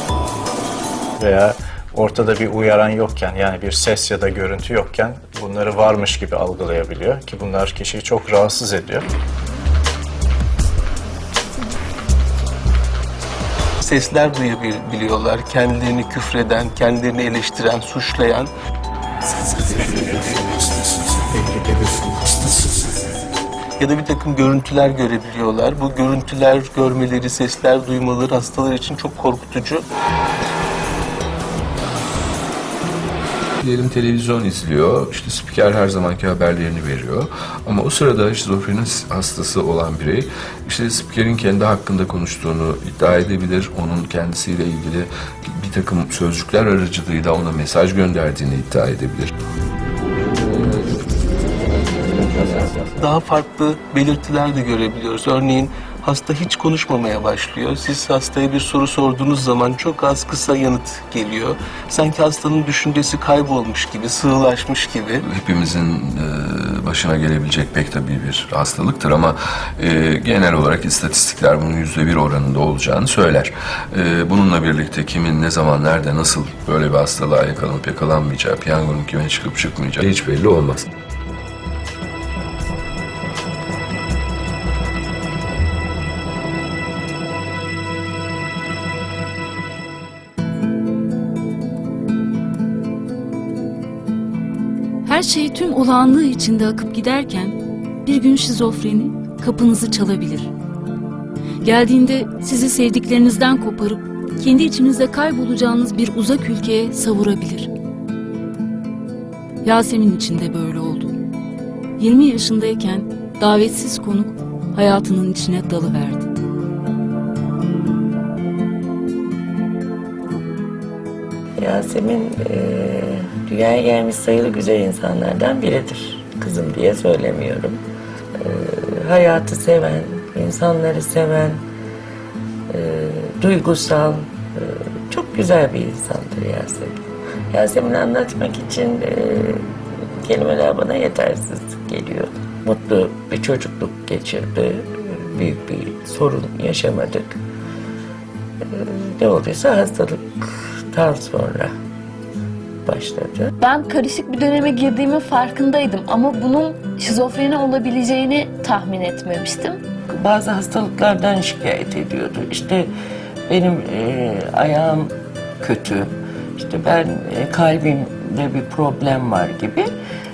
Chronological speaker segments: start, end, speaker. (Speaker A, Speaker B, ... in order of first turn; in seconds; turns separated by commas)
Speaker A: 1.2-9.1, Speaker B: 13.8-18.5, Speaker B: 19.4-20.8, Speaker B: 21.4-22.6, Speaker B: 23.8-29.9, Speaker C: 33.6-49.3, Speaker C: 52.3-52.7, Speaker B: 53.0-65.2, Speaker C: 65.2-80.8, Speaker D: 95.0-100.5, Speaker D: 101.6-107.7, Speaker D: 109.6-111.2, Speaker D: 112.0-116.3, Speaker E: 121.6-127.8, Speaker E: 128.4-131.6, Speaker E: 132.7-147.4, Speaker E: 148.7-151.7, Speaker E: 152.8-153.5, Speaker F: 153.6-159.8, Speaker E: 160.1-162.9, Speaker E: 163.5-169.9